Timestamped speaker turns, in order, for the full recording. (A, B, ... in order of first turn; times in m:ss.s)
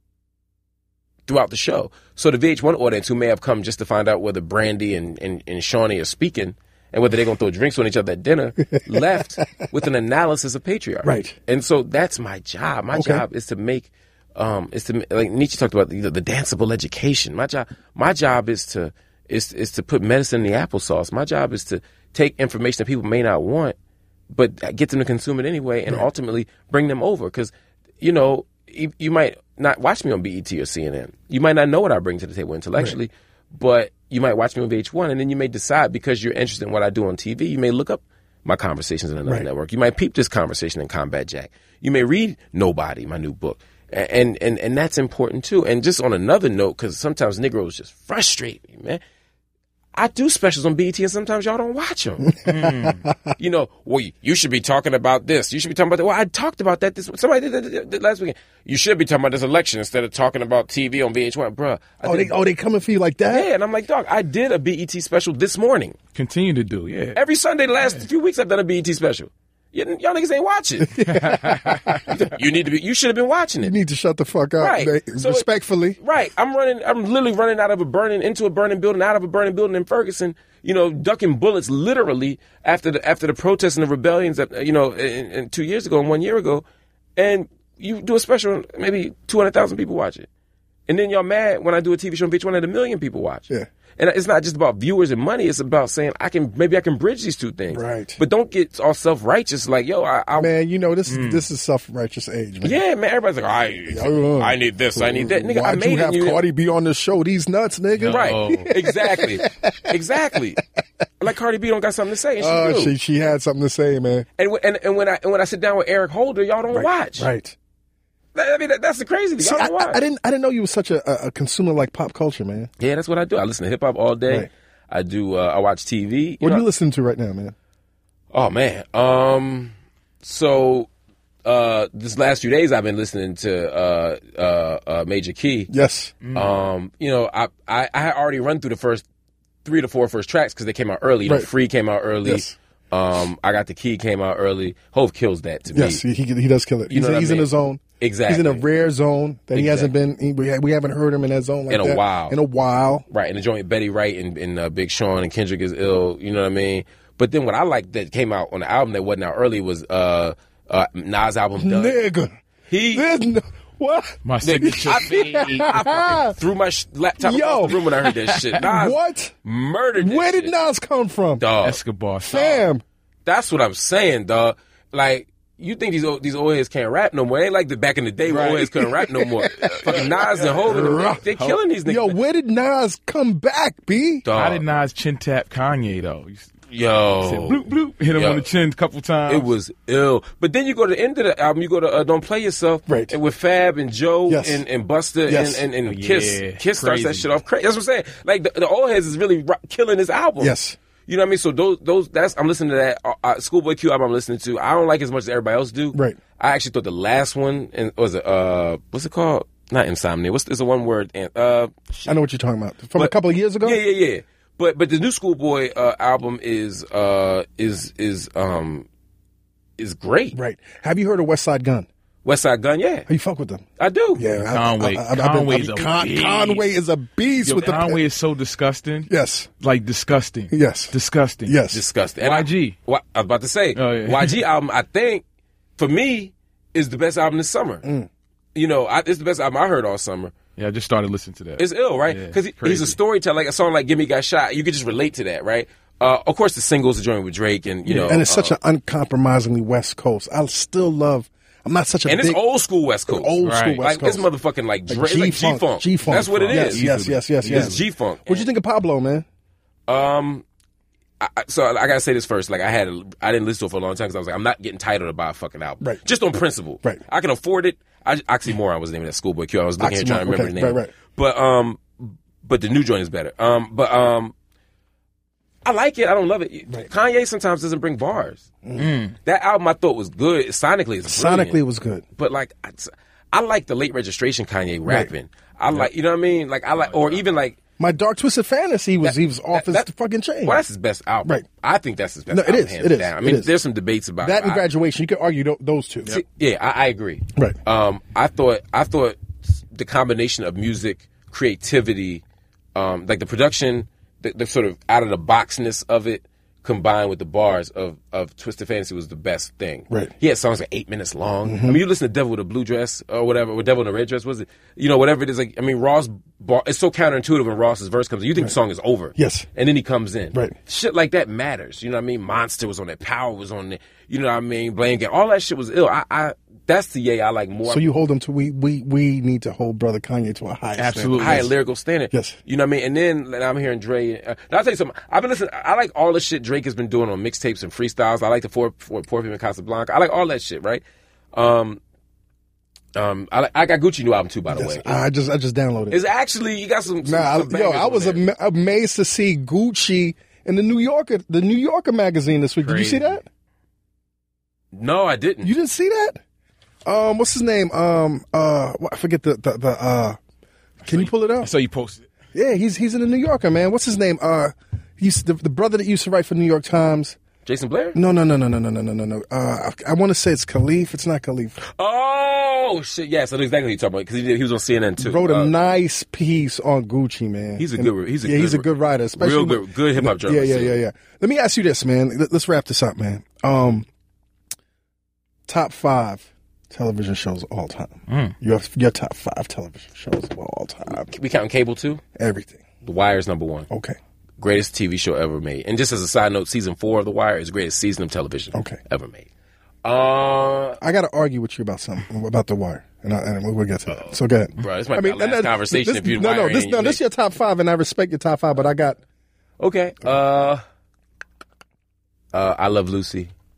0:01.3-0:23.7 A
0:11.0-0:11.3 B
0:12.9-0:13.2 B
0:24.3-0:49.0 A
0:49.9-0:52.4 A
0:52.2-0:53.1 B
0:52.4-0:53.0 C
0:53.4-1:02.3 A
1:02.0-1:03.5 B
1:03.3-1:06.0 A
1:06.1-1:07.2 C
1:07.1-1:11.0 A
1:10.9-1:12.1 B
1:11.1-1:12.0 C
1:12.1-1:13.7 A
1:13.6-1:16.0 B
1:14.6-1:15.5 A
1:16.0-1:26.6 A
1:27.2-1:30.3 A
1:30.9-1:40.5 A
1:37.7-1:38.2 B
1:40.4-1:42.8 B
1:41.1-1:41.4 C
1:42.6-1:46.4 A
1:43.9-1:49.9 B
1:47.9-1:48.7 C
1:48.0-1:50.6 A
1:51.2-1:52.9 A
1:52.4-1:54.2 B
1:54.4-1:57.3 A
1:56.7-1:57.6 B
1:58.3-2:00.0 A
1:59.4-2:02.7 B
2:02.8-2:06.6 A
2:06.4-2:07.5 B
2:08.3-2:10.9 A
2:11.4-2:15.7 A
2:15.7-2:16.1 B
2:16.2-2:16.5 C
2:16.3-2:19.0 A
2:19.6-2:26.0 A
2:22.2-2:22.5 B
2:25.7-2:33.0 B
2:26.9-2:27.5 A
2:28.0-2:28.6 A
2:29.5-2:29.9 A
2:31.7-2:32.4 A
2:33.1-2:42.0 A
2:41.6-2:42.4 B
2:42.7-2:43.1 A
2:42.9-2:46.3 B
2:44.2-2:46.2 C
2:44.4-2:50.5 A
2:47.2-2:47.8 B
2:48.1-2:48.4 C
2:48.6-2:49.3 B
2:50.0-2:51.4 B
2:51.4-2:51.8 A
2:51.6-2:52.6 C
2:52.3-2:52.8 B
2:53.2-3:02.2 A
2:58.3-2:58.7 C
2:58.8-3:01.2 B
2:59.9-3:01.6 C
3:01.8-3:04.2 B
3:04.2-3:04.6 A
3:04.3-3:06.6 C
3:06.7-3:08.4 A
3:07.2-3:09.5 C
3:09.3-3:20.5 A
3:12.9-3:13.1 B
3:14.3-3:14.6 B
3:15.3-3:15.6 B
3:15.8-3:17.3 C
3:20.4-3:20.8 B
3:21.1-3:32.1 A
3:25.9-3:26.2 B
3:32.0-3:33.8 B
3:33.0-3:38.9 A
3:39.8-3:40.4 A
3:40.3-3:41.9 B
3:42.2-3:43.1 A
3:43.1-3:43.6 B
3:43.8-3:44.2 A
3:44.2-3:48.0 B
3:44.4-3:46.6 C
3:47.4-3:49.1 C
3:49.1-3:49.5 B
3:49.6-3:51.5 C
3:50.5-3:51.8 B
3:51.7-3:55.2 A
3:52.2-3:52.8 C
3:53.7-3:54.4 C
3:55.8-3:57.8 A
3:57.8-3:58.1 B
3:58.5-4:00.3 A
4:00.6-4:03.0 C
4:01.6-4:08.5 A
4:07.8-4:08.2 C
4:08.0-4:12.4 B
4:12.0-4:16.8 A
4:13.1-4:14.2 B
4:13.4-4:13.8 C
4:14.9-4:19.2 B
4:16.0-4:17.8 C
4:17.4-4:18.5 A
4:19.9-4:20.4 A
4:21.2-4:34.3 A
4:29.8-4:30.9 B
4:35.6-4:38.4 A
4:38.8-4:39.2 C
4:39.2-4:41.6 A
4:41.0-4:42.0 B
4:42.2-4:47.6 A
4:46.8-4:47.2 C
4:47.8-4:50.6 B
4:49.0-4:49.9 A
4:50.4-4:54.6 A
4:52.3-4:53.5 B
4:54.2-4:56.2 B
4:56.0-5:02.2 A
5:02.7-5:27.8 A
5:11.4-5:11.8 B
5:19.2-5:19.5 B
5:27.7-5:31.5 B
5:30.8-5:31.5 C
5:31.2-5:40.8 A
5:32.1-5:32.4 B
5:41.3-5:41.8 A
5:42.9-5:45.0 A
5:44.5-5:46.0 B
5:45.9-5:48.2 A
5:47.0-5:53.2 B
5:52.6-5:53.2 C
5:54.7-5:55.5 A
5:55.4-5:56.2 B
5:56.8-6:00.2 B
6:00.8-6:02.1 C
6:00.8-6:01.5 B
6:02.3-6:07.2 B
6:07.4-6:08.0 A
6:07.9-6:11.6 B
6:11.6-6:15.5 A
6:15.0-6:23.9 B
6:17.6-6:20.8 A
6:25.5-6:31.1 B
6:28.1-6:28.3 C
6:31.1-6:32.0 A
6:32.2-6:32.6 B
6:32.8-6:33.7 A
6:33.7-6:34.0 B
6:34.4-6:39.3 A
6:38.5-6:38.8 B
6:39.8-6:40.8 A
6:40.8-6:49.0 B
6:43.9-6:47.0 A
6:49.6-6:50.6 A
6:52.3-6:53.3 A